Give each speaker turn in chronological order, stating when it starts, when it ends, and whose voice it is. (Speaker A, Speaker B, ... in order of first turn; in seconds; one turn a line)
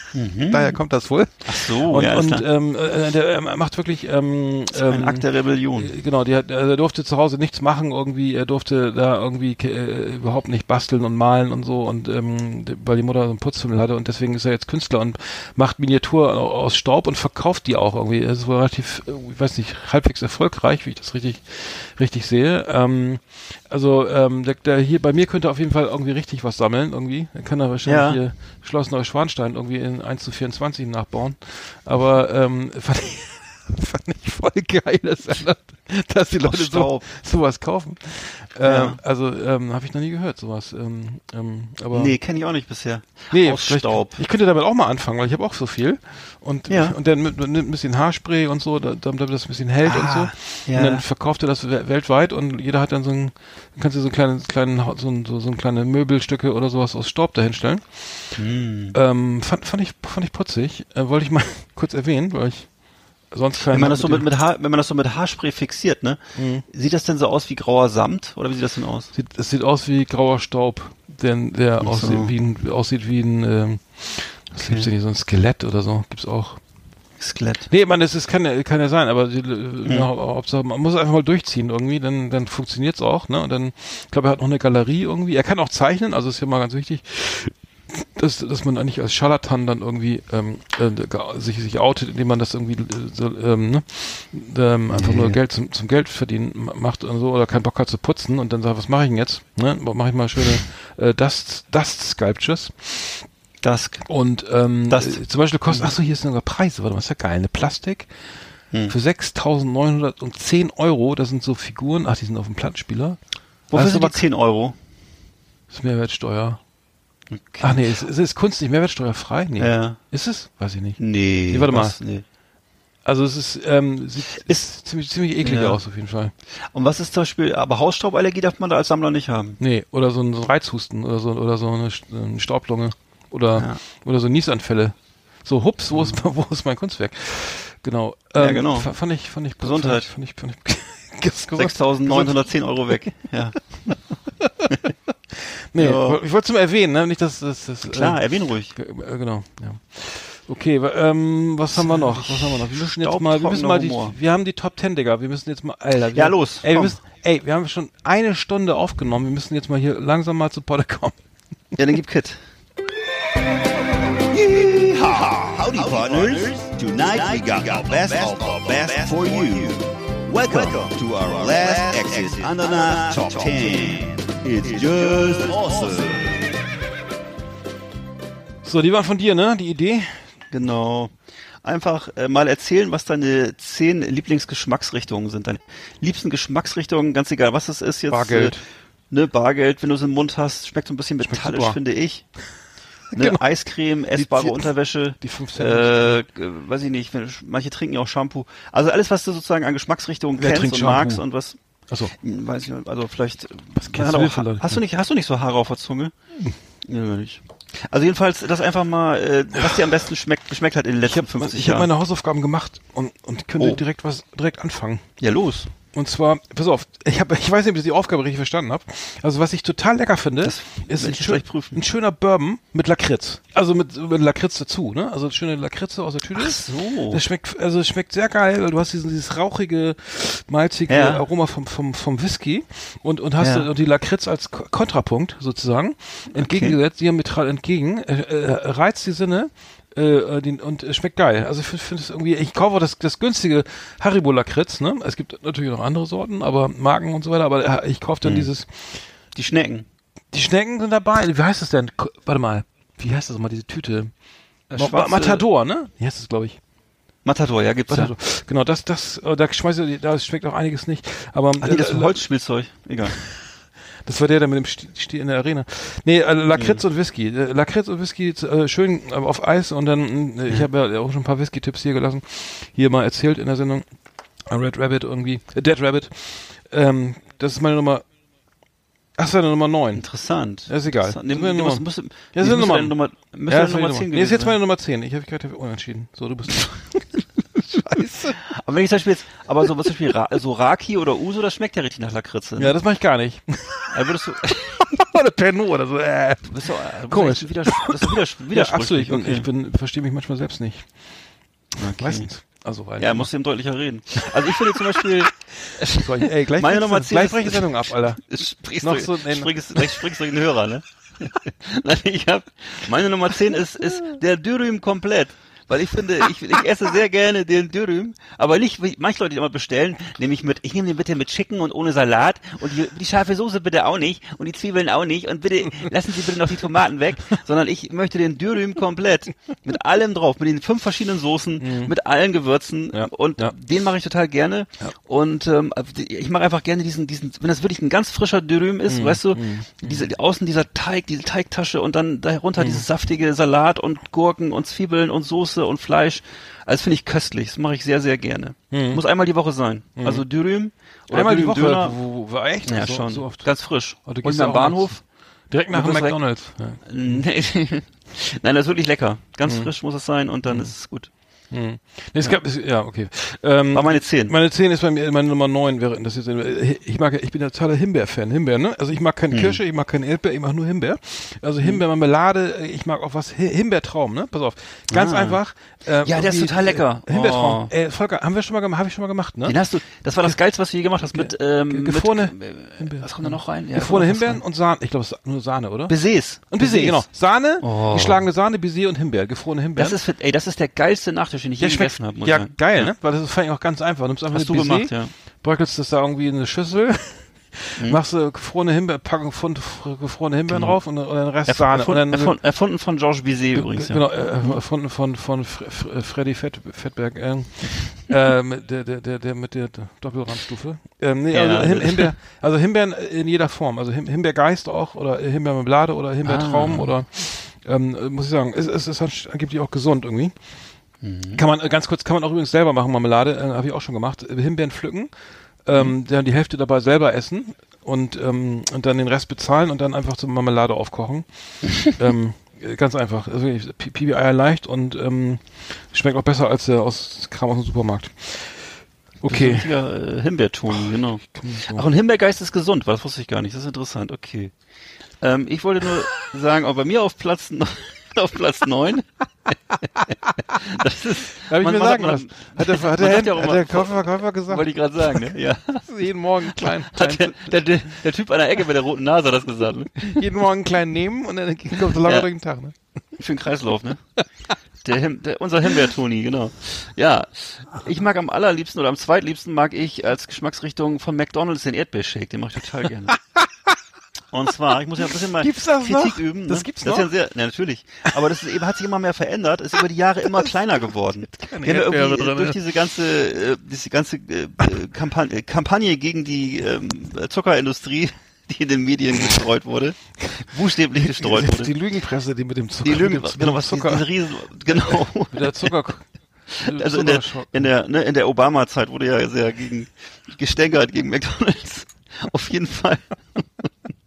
Speaker A: 0.1-0.8
Speaker B: 0.5-5.2
Speaker A: 1.4-2.4
Speaker A: 4.8-5.9
Speaker B: 5.8-42.1
Speaker A: 27.8-28.2
Speaker A: 36.4-37.0
Speaker A: 38.6-39.0
Speaker A: 41.9-44.2
Speaker B: 43.3-58.4
Speaker A: 46.7-46.9
Speaker A: 49.8-51.0
Speaker A: 58.4-58.9
Speaker B: 58.9-62.8
Speaker B: 63.3-64.3
Speaker A: 63.7-69.1
Speaker B: 66.3-66.6
Speaker B: 69.1-76.6
Speaker A: 71.8-72.3
Speaker A: 74.6-74.9
Speaker A: 77.2-77.7
Speaker B: 77.7-103.3
Speaker A: 94.9-95.4
Speaker A: 103.6-104.1
Speaker B: 104.1-108.1
Speaker A: 104.9-105.9
Speaker B: 108.9-113.2
Speaker A: 113.7-114.7
Speaker B: 113.7-114.2
Speaker B: 115.7-116.6
Speaker A: 117.3-117.9
Speaker B: 117.6-122.0
Speaker A: 119.6-120.0
Speaker A: 121.0-122.2
Speaker B: 123.0-126.3
Speaker A: 125.4-125.8
Speaker A: 126.7-129.6
Speaker B: 129.6-143.0
Speaker A: 135.9-136.2
Speaker A: 138.4-139.0
Speaker A: 139.6-140.1
Speaker A: 141.6-144.0
Speaker B: 144.4-144.7
Speaker B: 145.4-148.2
Speaker A: 145.8-146.2
Speaker A: 147.9-148.7
Speaker B: 148.7-161.1
Speaker A: 151.8-154.1
Speaker A: 156.1-157.0
Speaker A: 161.8-162.4
Speaker C: 164.3-176.3
Speaker B: 178.6-180.3
Speaker A: 180.5-181.1
Speaker A: 181.6-188.6
Speaker B: 188.1-188.6
Speaker A: 189.1-192.3
Speaker B: 191.2-191.8
Speaker B: 193.1-193.4
Speaker A: 193.1-201.6
Speaker B: 194.1-196.2
Speaker B: 200.3-201.2
Speaker A: 202.2-206.1
Speaker B: 203.8-204.8
Speaker A: 206.8-211.9
Speaker B: 209.6-209.9
Speaker B: 211.0-215.0
Speaker A: 215.2-215.7
Speaker B: 215.9-249.1
Speaker A: 220.4-221.8
Speaker A: 226.3-227.2
Speaker A: 230.9-231.2
Speaker A: 233.4-233.7
Speaker A: 236.3-236.8
Speaker A: 248.2-248.5
Speaker A: 249.3-249.8
Speaker B: 250.3-254.1
Speaker A: 254.7-255.4
Speaker B: 254.7-256.6
Speaker A: 257.2-258.1
Speaker B: 257.9-262.2
Speaker A: 261.6-263.2
Speaker B: 264.0-273.9
Speaker A: 266.5-266.8
Speaker B: 274.4-278.0
Speaker B: 279.2-280.0
Speaker A: 279.9-284.5
Speaker B: 280.7-282.9
Speaker B: 283.5-288.4
Speaker A: 288.5-292.8
Speaker B: 292.6-301.0
Speaker A: 293.9-294.9
Speaker A: 296.4-299.4
Speaker A: 301.8-302.4
Speaker B: 302.0-303.3
Speaker A: 303.0-351.9
Speaker B: 305.9-308.2
Speaker B: 308.8-309.9
Speaker B: 331.6-331.9
Speaker B: 332.9-333.5
Speaker B: 338.9-340.0
Speaker B: 342.6-342.8
Speaker B: 348.7-349.0
Speaker B: 350.0-350.2
Speaker B: 351.1-357.2
Speaker A: 352.6-355.0
Speaker A: 355.7-361.1
Speaker B: 359.4-359.7
Speaker B: 360.4-360.7
Speaker B: 361.5-379.6
Speaker A: 363.7-364.3
Speaker A: 369.3-369.6
Speaker A: 374.9-375.4
Speaker A: 376.0-377.7
Speaker A: 379.4-384.4
Speaker B: 381.0-389.9
Speaker A: 385.9-388.2
Speaker A: 389.8-392.9
Speaker B: 391.6-402.4
Speaker A: 394.3-395.1
Speaker A: 400.5-404.6
Speaker B: 403.5-420.4
Speaker A: 411.3-412.1
Speaker A: 416.2-416.9
Speaker A: 421.0-421.4
Speaker B: 421.3-425.1
Speaker B: 425.6-439.7
Speaker A: 439.2-444.5
Speaker B: 441.4-441.9
Speaker A: 445.2-455.9
Speaker B: 451.4-457.6
Speaker A: 456.6-460.2
Speaker B: 460.1-462.7
Speaker A: 461.9-462.3
Speaker A: 463.2-464.0
Speaker A: 464.8-473.2
Speaker A: 474.3-491.7
Speaker B: 475.4-477.1
Speaker B: 481.3-482.6
Speaker B: 491.0-494.1
Speaker A: 492.8-495.7
Speaker B: 494.7-497.7
Speaker A: 496.5-503.7